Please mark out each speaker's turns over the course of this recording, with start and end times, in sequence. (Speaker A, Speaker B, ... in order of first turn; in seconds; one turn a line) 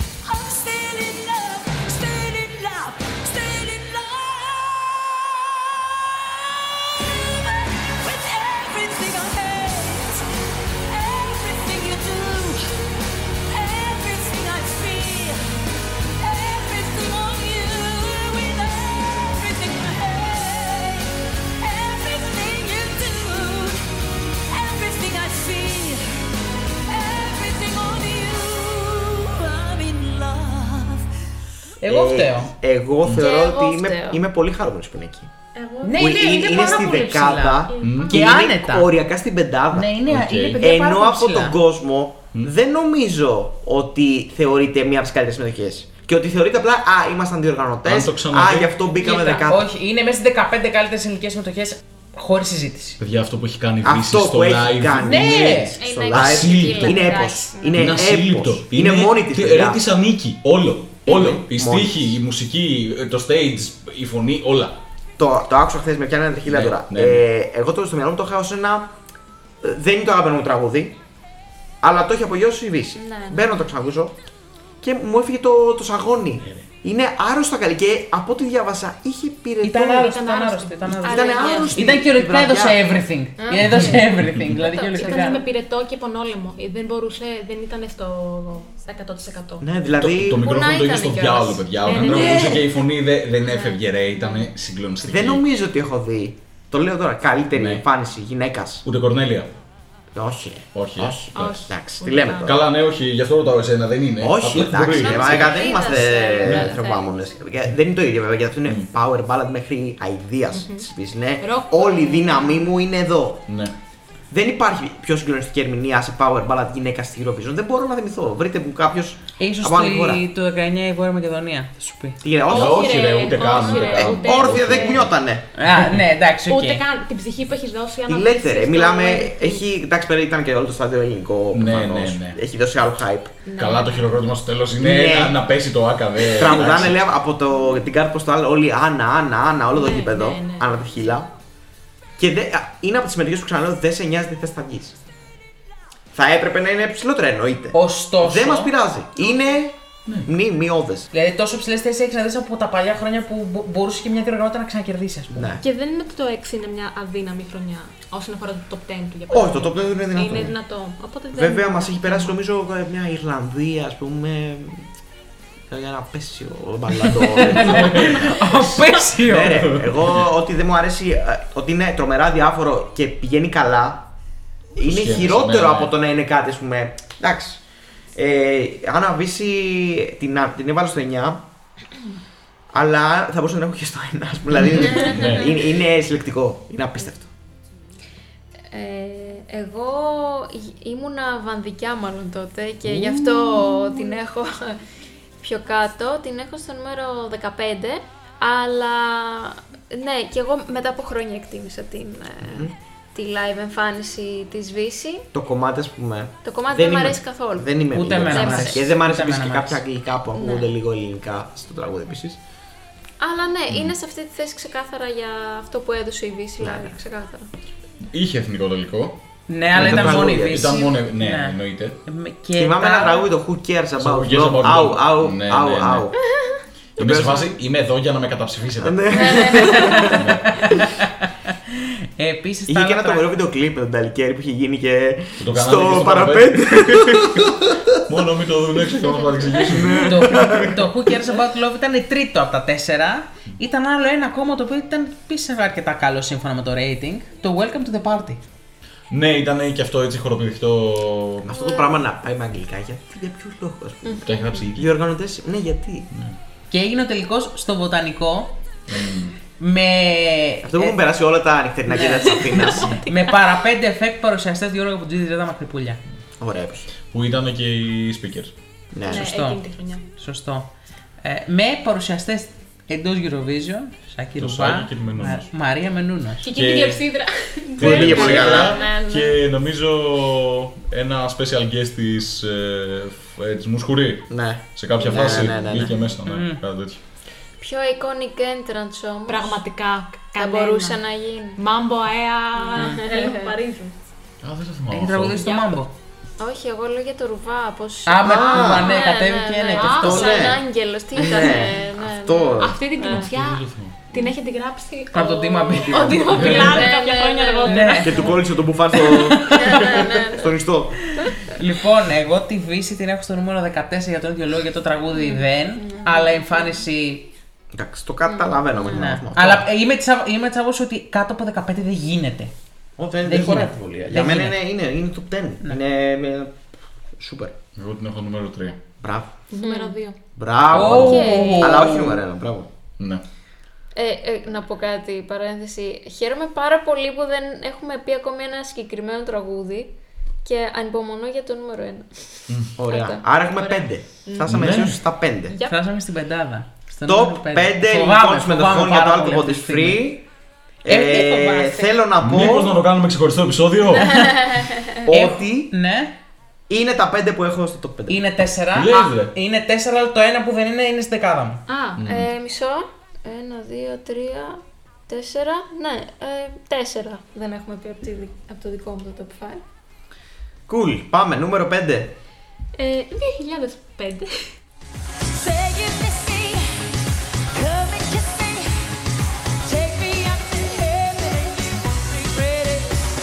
Speaker A: 0.2-5.6
Speaker A: 6.4-10.2
Speaker A: 10.9-12.7
Speaker A: 13.5-15.5
Speaker A: 16.2-23.9
Speaker A: 24.5-26.3
Speaker A: 26.9-31.0
Speaker B: 31.8-32.5
Speaker C: 31.8-35.3
Speaker D: 33.1-34.2
Speaker E: 35.5-37.0
Speaker B: 35.8-38.9
Speaker C: 35.9-39.9
Speaker E: 37.6-38.3
Speaker F: 37.8-38.2
Speaker B: 39.7-41.6
Speaker F: 40.0-40.6
Speaker C: 40.6-49.7
Speaker F: 47.8-48.8
Speaker B: 49.0-53.0
Speaker F: 53.0-55.4
Speaker C: 53.8-59.8
Speaker B: 55.0-55.7
Speaker D: 55.8-58.1
Speaker F: 56.1-57.2
Speaker F: 57.7-64.8
Speaker C: 61.0-62.1
Speaker C: 65.2-68.9
Speaker F: 66.5-67.2
Speaker C: 69.6-71.0
Speaker C: 71.8-74.1
Speaker D: 72.9-73.5
Speaker C: 74.8-80.1
Speaker B: 79.6-85.4
Speaker E: 80.0-81.7
Speaker C: 80.8-82.8
Speaker D: 81.0-81.8
Speaker D: 83.4-85.4
Speaker F: 83.6-84.6
Speaker E: 85.0-89.7
Speaker C: 89.6-90.4
Speaker F: 89.9-95.4
Speaker D: 90.4-92.5
Speaker E: 91.8-92.7
Speaker D: 93.4-94.5
Speaker C: 95.0-98.8
Speaker F: 97.5-97.8
Speaker F: 98.8-99.5
Speaker C: 100.1-102.6
Speaker F: 100.7-101.6
Speaker E: 101.3-102.6
Speaker F: 102.4-105.7
Speaker C: 104.2-113.5
Speaker D: 104.8-107.2
Speaker F: 106.4-106.7
Speaker E: 110.5-110.9
Speaker E: 111.4-112.5
Speaker F: 113.5-113.7
Speaker C: 114.3-120.2
Speaker B: 119.4-122.2
Speaker C: 122.2-125.4
Speaker F: 122.5-125.2
Speaker E: 122.5-125.0
Speaker B: 125.5-126.8
Speaker E: 126.4-129.6
Speaker C: 128.1-133.4
Speaker F: 131.5-132.4
Speaker E: 133.4-134.2
Speaker F: 133.6-137.0
Speaker C: 134.8-135.4
Speaker C: 136.3-141.3
Speaker E: 139.7-140.7
Speaker C: 142.2-145.0
Speaker C: 146.1-151.1
Speaker B: 147.7-148.7
Speaker B: 151.1-155.5
Speaker C: 155.3-155.6
Speaker E: 155.6-162.4
Speaker C: 159.3-160.5
Speaker C: 161.3-164.8
Speaker C: 165.7-174.1
Speaker B: 167.2-169.7
Speaker F: 167.6-168.2
Speaker F: 169.6-170.1
Speaker C: 174.8-177.6
Speaker F: 174.8-175.9
Speaker C: 178.1-181.4
Speaker C: 182.7-187.3
Speaker D: 184.9-185.2
Speaker F: 184.9-185.5
Speaker D: 188.7-194.8
Speaker D: 195.4-205.3
Speaker C: 202.4-202.7
Speaker C: 205.3-212.4
Speaker D: 206.4-208.9
Speaker B: 207.9-209.8
Speaker D: 210.3-210.7
Speaker D: 213.2-217.5
Speaker C: 216.6-216.9
Speaker F: 218.1-219.2
Speaker B: 219.5-223.3
Speaker F: 219.7-222.0
Speaker C: 219.7-220.8
Speaker C: 222.6-226.1
Speaker F: 224.0-226.1
Speaker D: 226.3-226.6
Speaker F: 227.0-230.8
Speaker C: 227.0-227.5
Speaker C: 228.8-230.3
Speaker D: 229.1-230.2
Speaker B: 230.7-231.5
Speaker B: 232.2-233.3
Speaker C: 232.7-238.2
Speaker F: 235.4-237.5
Speaker F: 238.1-240.7
Speaker C: 239.6-240.7
Speaker B: 239.9-248.4
Speaker F: 249.1-251.5
Speaker C: 251.4-256.1
Speaker D: 251.5-252.0
Speaker D: 254.0-254.6
Speaker F: 254.2-254.9
Speaker B: 256.7-258.6
Speaker F: 258.9-259.4
Speaker B: 259.6-261.0
Speaker C: 260.6-263.0
Speaker B: 261.9-266.0
Speaker C: 266.4-266.9
Speaker F: 267.1-268.5
Speaker C: 268.9-269.3
Speaker E: 269.1-270.1
Speaker B: 269.1-270.7
Speaker B: 271.2-276.4
Speaker F: 274.4-275.5
Speaker E: 276.4-278.8
Speaker F: 276.5-277.1
Speaker F: 277.8-287.0
Speaker C: 277.8-278.7
Speaker D: 278.2-279.4
Speaker C: 284.3-285.9
Speaker B: 286.2-286.6
Speaker D: 287.6-289.6
Speaker E: 289.3-291.0
Speaker D: 290.4-291.6
Speaker E: 291.6-293.9
Speaker D: 292.6-293.6
Speaker F: 294.4-295.6
Speaker B: 294.9-295.9
Speaker D: 296.4-303.3
Speaker B: 298.1-300.3
Speaker C: 298.2-299.0
Speaker E: 299.7-300.5
Speaker C: 300.0-300.6
Speaker C: 301.1-302.8
Speaker E: 302.6-308.4
Speaker F: 303.2-304.0
Speaker B: 305.1-306.8
Speaker F: 306.4-306.7
Speaker D: 306.5-308.3
Speaker B: 307.7-308.3
Speaker C: 308.0-311.1
Speaker B: 309.0-309.6
Speaker D: 309.5-310.6
Speaker B: 311.4-317.3
Speaker D: 315.1-316.8
Speaker C: 317.7-319.6
Speaker D: 318.2-319.1
Speaker B: 318.9-322.5
Speaker C: 323.0-326.6
Speaker B: 323.2-324.6
Speaker C: 327.2-327.5
Speaker F: 327.8-328.8
Speaker C: 329.0-329.3
Speaker E: 329.5-330.2
Speaker D: 329.6-330.0
Speaker C: 330.4-332.7
Speaker B: 330.7-332.2
Speaker F: 330.7-331.0
Speaker D: 330.9-331.8
Speaker D: 333.9-339.9
Speaker D: 340.4-343.4
Speaker F: 342.5-342.8
Speaker C: 342.8-345.6
Speaker E: 344.2-344.8
Speaker F: 344.5-345.0
Speaker E: 345.5-345.8
Speaker B: 345.6-350.1
Speaker C: 347.0-350.2
Speaker C: 350.8-352.8
Speaker B: 350.9-351.9
Speaker F: 352.2-354.2
Speaker D: 354.0-355.0
Speaker C: 355.0-355.7
Speaker B: 355.1-356.1
Speaker C: 356.7-358.2
Speaker B: 358.1-361.6
Speaker F: 358.7-359.3
Speaker E: 361.7-362.0
Speaker F: 361.9-362.3
Speaker D: 362.1-369.6
Speaker C: 370.7-372.1
Speaker E: 372.7-374.5
Speaker A: 375.3-376.9
Speaker A: 377.5-378.9
Speaker A: 379.6-383.0